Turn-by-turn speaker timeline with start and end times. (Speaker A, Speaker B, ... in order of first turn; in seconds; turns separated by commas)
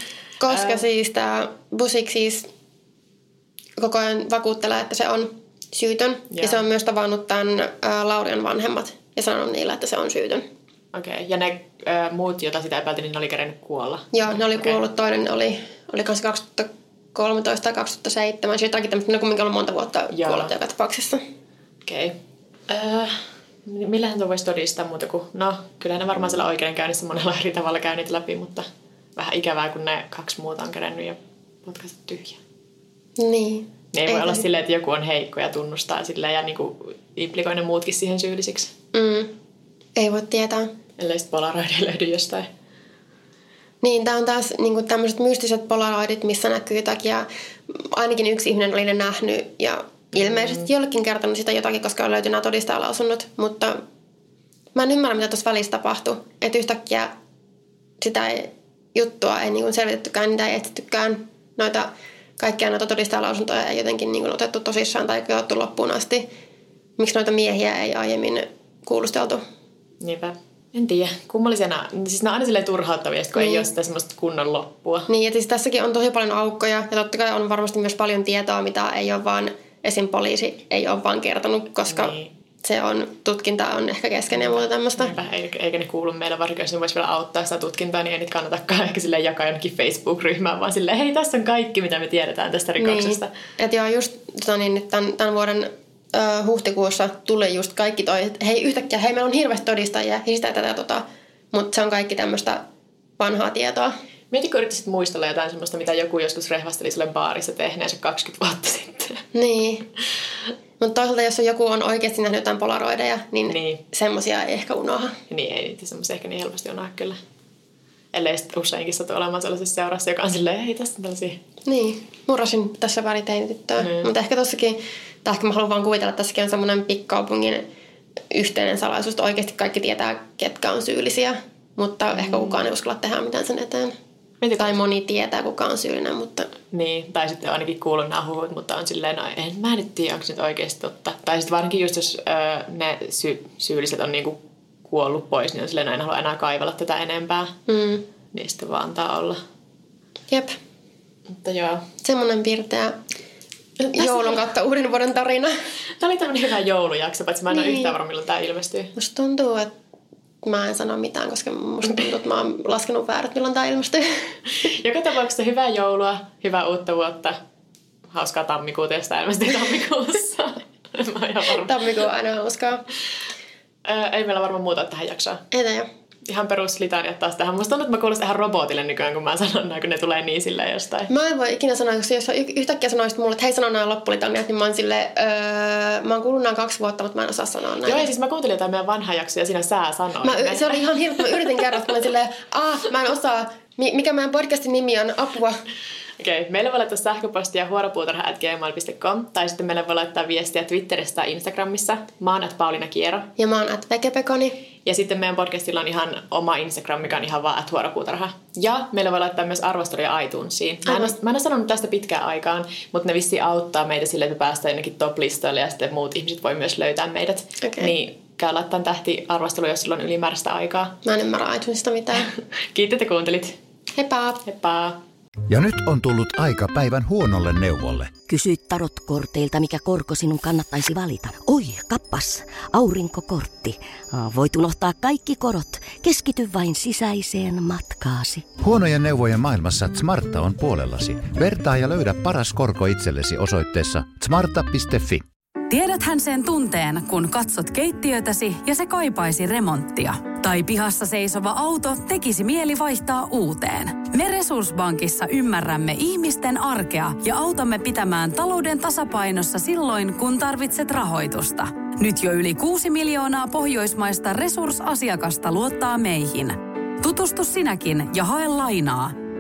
Speaker A: 0.4-2.5, Speaker B: 0.5-0.8, Speaker A: 3.8-10.4, Speaker B: 6.3-6.6, Speaker B: 10.9-14.8, Speaker A: 14.1-21.2, Speaker B: 20.1-20.5, Speaker B: 21.9-22.2, Speaker B: 22.7-32.4, Speaker A: 33.2-34.4, Speaker B: 33.9-38.7, Speaker A: 38.9-39.3, Speaker A: 40.0-40.7, Speaker B: 41.0-42.5, Speaker A: 43.8-53.8, Speaker B: 50.2-50.6, Speaker A: 54.8-57.1, Speaker A: 58.0-66.3, Speaker A: 67.0-69.4, Speaker B: 70.0-75.1, Speaker A: 73.4-73.7, Speaker A: 75.1-85.1, Speaker B: 81.9-82.3, Speaker B: 84.4-93.3, Speaker A: 92.8-102.6, Speaker A: 103.2-104.0, Speaker B: 104.3-109.2, Speaker A: 109.3-109.9, Speaker A: 110.8-115.2, Speaker B: 113.5-113.8, Speaker B: 115.3-117.2, Speaker B: 118.1-121.4, Speaker A: 121.7-127.7, Speaker B: 123.8-124.1, Speaker A: 128.3-133.9, Speaker B: 132.2-132.6, Speaker B: 134.4-134.8, Speaker A: 134.6-136.5, Speaker B: 136.7-147.6, Speaker A: 147.7-148.0, Speaker B: 148.3-149.4, Speaker A: 150.3-150.6, Speaker B: 151.3-151.9, Speaker A: 152.0-153.0, Speaker A: 153.8-155.6, Speaker B: 154.0-154.3, Speaker B: 156.0-158.9, Speaker A: 157.5-157.9, Speaker A: 159.0-159.7, Speaker A: 160.4-164.3, Speaker B: 164.6-167.4, Speaker B: 168.1-171.8, Speaker A: 171.5-172.8, Speaker B: 173.8-175.4, Speaker A: 175.5-175.9, Speaker B: 176.3-181.1, Speaker A: 181.1-188.1, Speaker B: 187.8-191.8, Speaker A: 190.2-195.6, Speaker B: 196.2-203.3, Speaker A: 203.4-204.6, Speaker B: 204.8-221.0, Speaker A: 210.9-211.1, Speaker A: 217.6-217.9, Speaker A: 221.0-222.3, Speaker B: 222.7-223.6, Speaker A: 223.9-224.4, Speaker B: 224.5-225.0, Speaker C: 225.5-228.1, Speaker D: 228.3-238.6, Speaker C: 238.6-245.2, Speaker E: 245.7-269.2